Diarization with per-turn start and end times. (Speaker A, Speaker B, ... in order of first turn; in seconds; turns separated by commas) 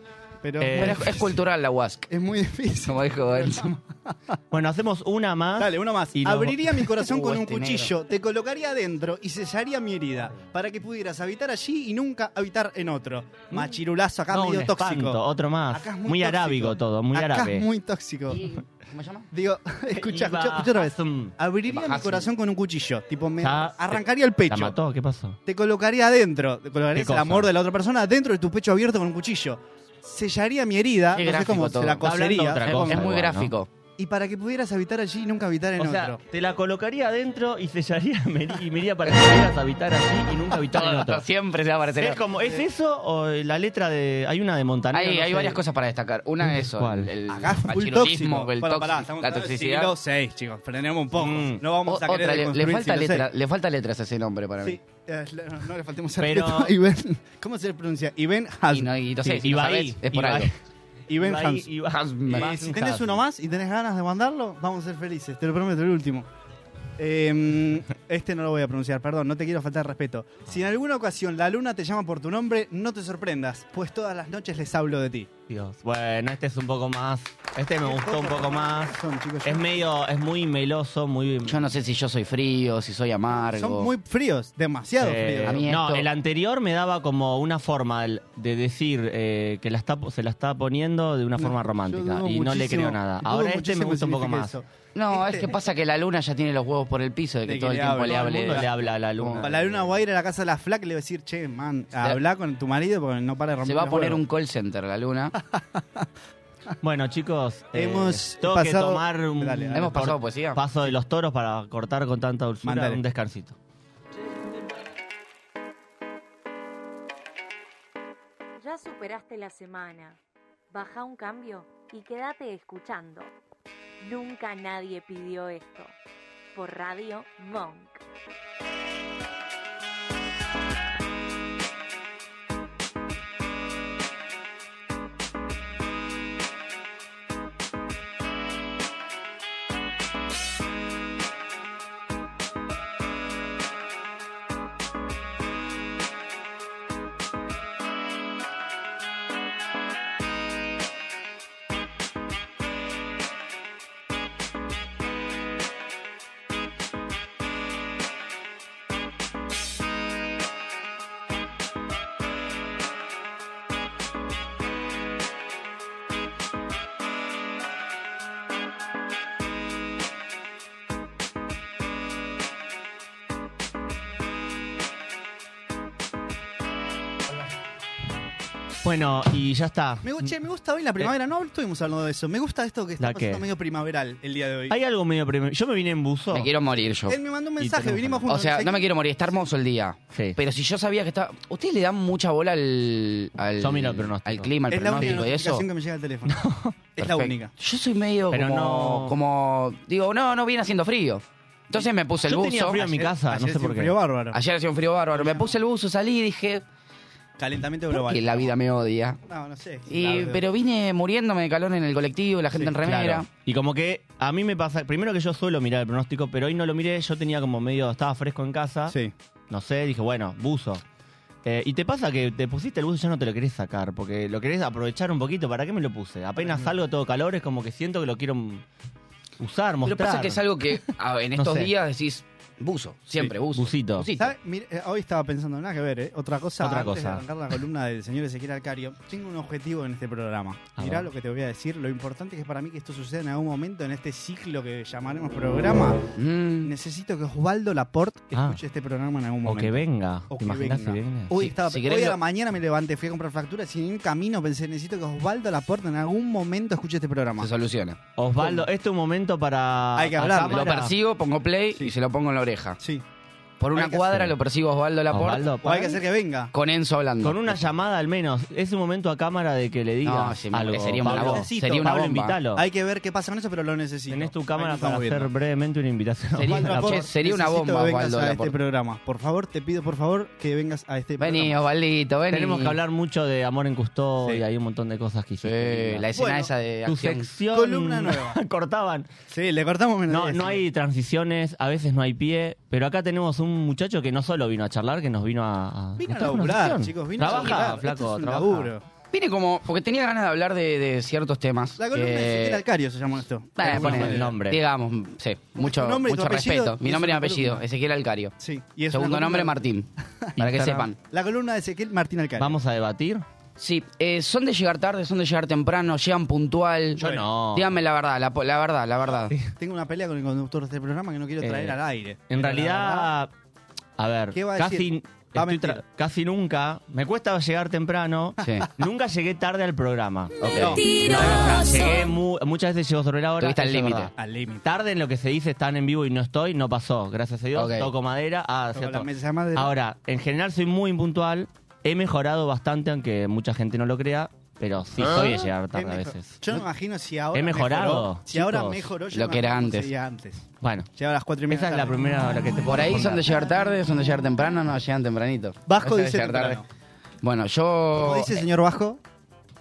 Speaker A: 0.4-1.4, Speaker B: 0.6-1.2, Speaker C: 0.7-2.1, Speaker A: 2.1-4.3, Speaker C: 2.8-3.8, Speaker B: 4.5-6.9, Speaker A: 5.6-15.2, Speaker C: 7.0-7.9, Speaker B: 14.3-17.7, Speaker A: 15.7-18.4, Speaker C: 18.3-19.3, Speaker A: 19.3-24.8, Speaker B: 19.9-21.3, Speaker C: 21.7-22.3, Speaker B: 23.4-25.4, Speaker A: 25.4-33.1, Speaker B: 26.9-27.5, Speaker C: 31.1-32.0, Speaker B: 32.0-33.5, Speaker C: 32.6-33.7, Speaker A: 34.0-36.2, Speaker B: 35.8-41.2, Speaker C: 40.6-42.2, Speaker B: 42.0-45.6, Speaker C: 44.9-49.9, Speaker B: 46.4-47.1, Speaker A: 47.3-53.2, Speaker B: 51.1-51.6, Speaker C: 51.8-54.8, Speaker A: 54.6-58.9, Speaker B: 56.2-56.7, Speaker C: 58.7-60.5, Speaker B: 59.2-60.5, Speaker A: 61.1-61.7, Speaker B: 61.2-63.2, Speaker C: 61.9-62.5, Speaker A: 62.3-66.3, Speaker A: 67.0-75.3, Speaker B: 75.5-81.7, Speaker A: 77.8-79.8, Speaker C: 81.4-83.9, Speaker A: 83.3-85.6, Speaker B: 85.0-94.5, Speaker C: 85.4-86.1, Speaker A: 91.4-95.5, Speaker C: 94.9-99.5, Speaker A: 97.5-98.7, Speaker B: 98.0-100.0, Speaker A: 99.3-104.2, Speaker C: 103.6-105.3, Speaker A: 105.5-106.0, Speaker B: 106.8-113.5, Speaker A: 107.7-109.9, Speaker C: 109.7-110.6, Speaker A: 112.6-113.0, Speaker D: 118.6-120.2, Speaker D: 120.7-123.3, Speaker D: 124.0-125.9, Speaker D: 126.5-128.0, Speaker B: 178.8-180.3, Speaker A: 180.0-184.7, Speaker B: 183.0-183.4, Speaker B: 184.7-186.5, Speaker C: 186.3-187.2, Speaker A: 187.1-188.9, Speaker B: 187.6-188.2, Speaker C: 188.2-195.7, Speaker B: 190.1-190.4, Speaker B: 193.6-195.3, Speaker A: 194.7-196.4, Speaker B: 196.2-197.3, Speaker A: 196.9-197.5, Speaker C: 197.5-202.8, Speaker B: 198.3-199.2, Speaker B: 202.2-203.9, Speaker A: 202.7-204.4, Speaker C: 204.3-206.6, Speaker A: 205.1-205.5, Speaker A: 207.4-208.5, Speaker C: 207.9-209.2, Speaker A: 209.3-210.4, Speaker C: 209.9-213.3, Speaker B: 212.8-218.9, Speaker A: 218.9-219.1, Speaker B: 219.5-220.8, Speaker B: 221.4-228.6, Speaker A: 226.4-226.7, Speaker B: 229.4-230.4, Speaker C: 229.8-234.3, Speaker B: 231.3-231.7, Speaker B: 233.5-234.1, Speaker A: 234.2-246.0, Speaker B: 236.6-237.2, Speaker B: 240.8-241.1, Speaker C: 246.2-246.7, Speaker A: 246.6-257.5, Speaker B: 248.3-248.6, Speaker B: 249.4-251.3, Speaker C: 251.3-252.2, Speaker C: 257.4-258.0, Speaker B: 258.1-260.9, Speaker A: 258.4-258.7, Speaker A: 259.9-260.6, Speaker C: 260.3-262.8, Speaker C: 263.6-265.8, Speaker A: 263.7-264.2, Speaker B: 265.1-266.0, Speaker A: 265.6-266.5, Speaker C: 266.5-267.7, Speaker B: 267.2-272.6, Speaker C: 270.0-272.4, Speaker A: 270.8-272.0, Speaker A: 272.5-275.3, Speaker B: 274.1-277.1, Speaker C: 276.3-278.6, Speaker A: 276.4-281.5, Speaker C: 281.2-282.8, Speaker B: 282.3-286.0, Speaker C: 285.4-287.3, Speaker A: 286.1-286.5, Speaker B: 286.9-289.1, Speaker A: 287.5-288.4, Speaker A: 289.3-290.6, Speaker B: 290.1-298.7, Speaker A: 296.0-298.8, Speaker C: 297.2-297.6, Speaker C: 299.1-302.6, Speaker A: 301.8-304.3, Speaker C: 303.6-308.3, Speaker B: 303.6-304.6, Speaker A: 305.6-307.6, Speaker A: 308.4-309.6, Speaker C: 308.9-310.9, Speaker B: 310.4-310.9, Speaker A: 311.1-312.5, Speaker B: 312.4-313.2, Speaker C: 313.6-319.3, Speaker B: 317.0-317.7, Speaker A: 319.6-323.1, Speaker B: 321.4-321.8, Speaker B: 322.3-323.3, Speaker B: 324.0-334.1, Speaker A: 324.3-325.8, Speaker C: 328.4-328.7, Speaker C: 330.4-331.6, Speaker A: 330.5-330.9, Speaker C: 333.4-334.1, Speaker A: 334.2-334.6, Speaker B: 334.6-346.6, Speaker C: 337.6-337.9, Speaker A: 338.7-339.7, Speaker A: 345.1-350.4, Speaker B: 347.3-348.9, Speaker C: 349.1-349.9, Speaker B: 350.6-350.9, Speaker A: 350.9-353.3, Speaker B: 351.5-353.3, Speaker C: 352.6-356.6, Speaker A: 355.7-356.6, Speaker C: 357.2-358.4, Speaker A: 357.9-359.0